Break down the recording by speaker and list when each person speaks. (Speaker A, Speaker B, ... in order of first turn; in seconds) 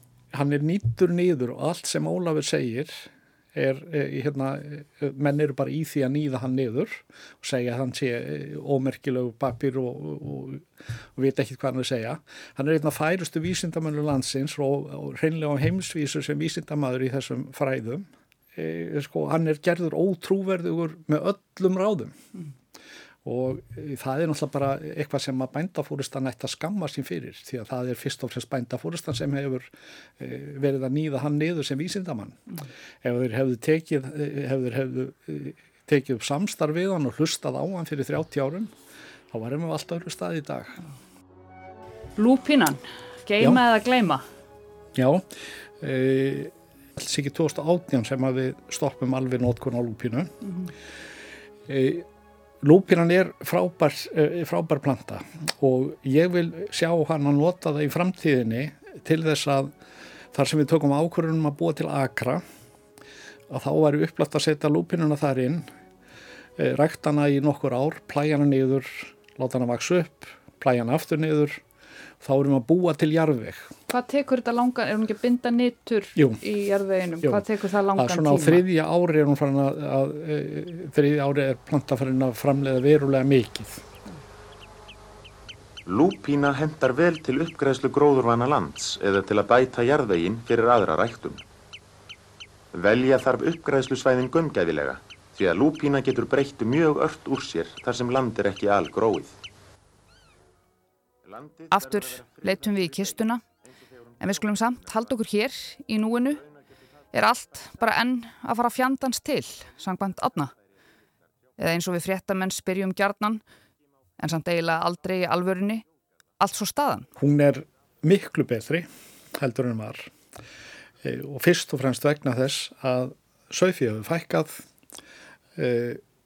Speaker A: 0.3-22.1, 23.2-38.7, 39.3-40.8, 45.0-45.2, 45.8-50.5, 51.7-52.0, 52.6-59.7, 60.3-62.4, 63.5-65.7, 66.6-71.6, 72.2-73.7, 76.2-76.4, 77.2-83.8, 117.2-120.1, 121.0-124.6, 125.6-126.0
Speaker B: 42.2-44.2, 73.9-78.6, 101.7-103.4, 104.2-106.5, 107.1-110.5, 111.6-113.4, 114.2-115.8, 116.4-117.1
Speaker C: 85.9-91.4, 92.7-99.3, 101.3-102.3